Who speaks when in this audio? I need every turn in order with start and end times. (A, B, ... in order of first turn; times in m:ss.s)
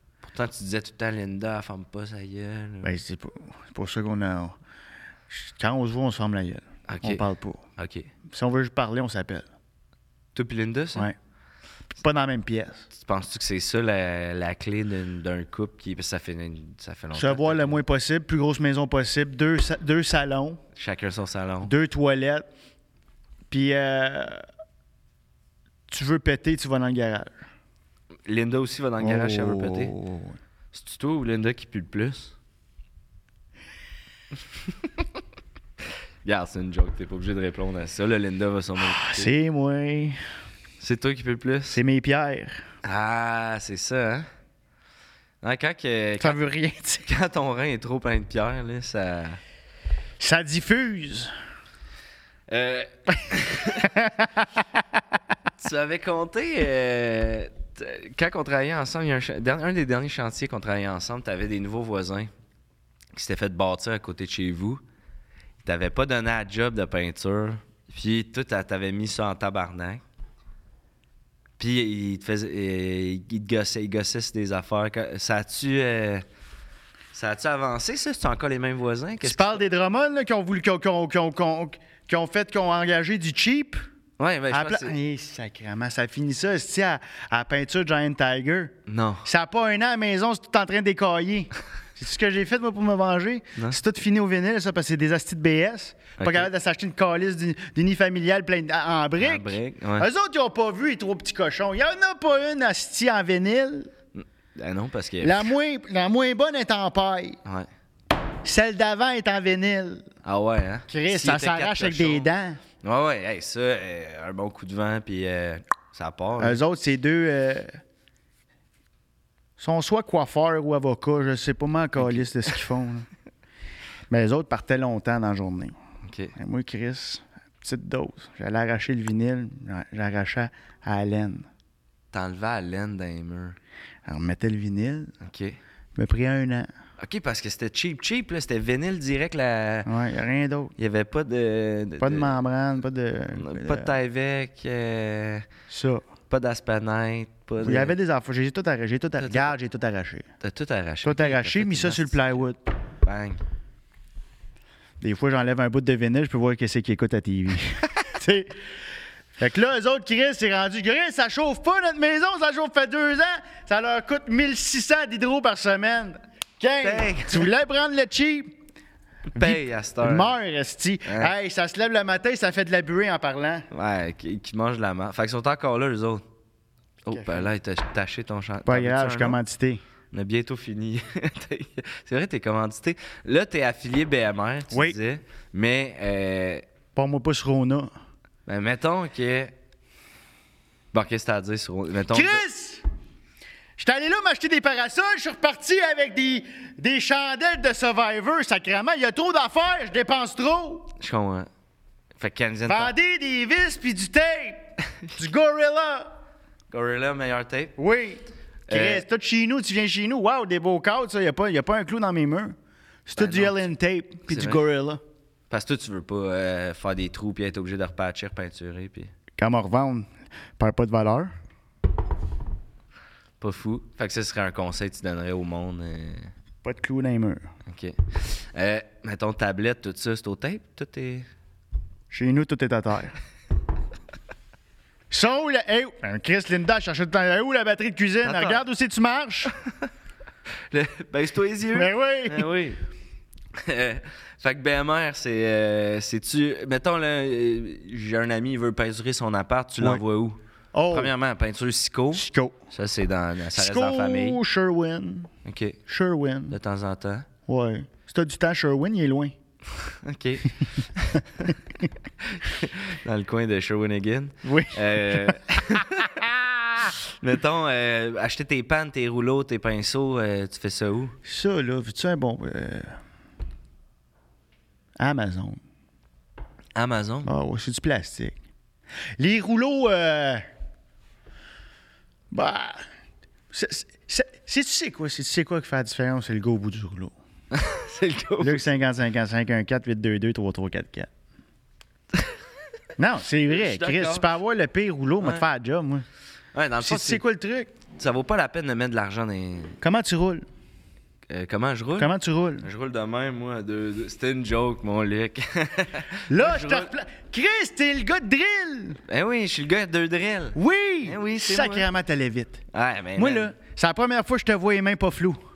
0:00.2-0:02.9 A
0:02.8-0:04.6 B
0:05.3-0:07.6 B
0:06.9-0:08.1 A
0:08.3-0:09.5 B
0:10.4-0:11.1 A
0:12.0-0:12.9 B
0:12.9-0:17.8 A
0:17.1-0:20.6 B
0:20.8-0:21.7 A
0:21.6-0:22.5 B
0:23.5-0:24.4 B
0:25.9-0:27.4 B
0:28.3-0:30.0 A
0:29.0-0:30.4 B
0:30.7-0:32.3 A
0:36.2-0:39.3 A
0:38.8-0:40.2 B
0:40.8-0:41.8 A
0:41.7-0:42.6 B
0:42.8-0:44.3 A
0:45.4-0:46.4 A
0:46.2-0:47.1 B
0:47.0-0:49.4 A
0:50.2-0:51.3 B
0:52.5-0:54.1 A
0:53.8-0:54.6 B
0:55.6-1:02.3 A
1:03.1-1:04.8 A
1:05.6-1:10.0 A
1:11.6-1:16.3 A
1:17.1-1:19.6 A
1:19.2-1:23.8 B
1:24.2-1:25.0 A
1:24.5-1:43.9 B
1:28.9-1:29.3 A
1:36.2-1:36.5 A
1:39.2-1:40.1 A
1:44.2-1:45.5 A
1:45.2-1:47.4 B
1:48.4-1:50.1 B
1:50.2-1:52.3 A
1:50.9-1:52.6 B
1:52.8-1:56.6 A
1:56.4-1:57.8 B
1:59.6-2:03.1 B
2:02.0-2:02.6 A
2:04.1-2:05.8 B
2:06.0-2:06.4 A
2:06.4-2:11.5 B
2:12.1-2:13.6 A
2:14.1-2:15.1 B
2:15.2-2:15.6 A
2:16.0-2:16.7 B
2:17.0-2:19.9 A
2:19.9-2:20.7 B
2:20.8-2:22.4 A
2:22.0-2:23.9 B
2:23.3-2:25.5 A
2:25.7-2:26.0 B
2:26.3-2:28.0 A
2:27.6-2:30.2 B
2:29.2-2:29.5 A
2:30.4-2:32.4 A
2:31.0-2:32.6 B
2:33.0-2:33.4 A
2:35.0-2:38.6 B
2:39.4-2:48.6 B
2:46.8-2:47.5 A
2:49.3-2:50.3 A
2:49.4-2:53.7 B
2:51.1-2:51.3 A
2:53.7-2:56.2 A
2:57.0-2:59.4 A
2:57.1-2:57.5 B
2:58.7-2:59.8 B
3:00.1-3:06.6 A
3:04.7-3:05.0 B
3:07.0-3:07.9 B
3:08.5-3:09.5 A
3:10.9-3:12.4 A
3:12.1-3:12.8 B
3:13.8-3:20.9 B
3:21.0-3:21.5 A
3:22.2-3:22.9 A
3:22.7-3:24.6 B
3:25.2-3:26.2 B
3:26.7-3:27.8 A
3:27.8-3:35.0 B
3:28.7-3:29.0 A
3:33.2-3:33.6 A
3:34.3-3:34.6 A
3:35.5-3:39.1 A
3:39.4-3:41.3 B
3:43.4-3:46.3 A
3:46.6-3:47.4 B
3:47.7-3:51.3 A
3:52.1-3:53.2 B
3:55.1-3:59.5 B
3:58.2-3:58.6 A
3:59.5-3:59.9 A
4:00.7-4:02.8 A
4:01.7-4:02.5 B
4:03.6-4:14.4 A
4:10.7-4:11.1 B
4:12.2-4:12.6 B
4:13.5-4:15.3 B
4:15.4-4:15.8 A
4:15.9-4:16.6 B
4:16.5-4:17.3 A
4:17.5-4:19.4 B
4:19.8-4:21.6 A
4:22.2-4:31.2 A
4:24.4-4:26.9 B
4:31.2-4:33.0 B
4:35.0-4:35.6 B
4:36.8-4:37.3 A
4:37.2-4:38.4 B
4:39.2-4:40.5 B
4:42.3-4:42.9 B
4:43.5-4:47.2 B
4:47.5-4:48.7 A
4:48.4-4:51.1 B
4:53.0-4:56.0 B
4:53.5-4:54.3 A
4:56.5-4:57.2 A
4:56.8-4:57.7 B
4:58.0-4:59.8 A
4:59.8-5:00.4 B
5:01.3-5:06.9 A
5:02.0-5:02.7 B
5:06.3-5:09.0 B
5:09.1-5:11.9 A
5:10.6-5:12.6 B
5:12.7-5:13.5 A
5:13.2-5:15.4 B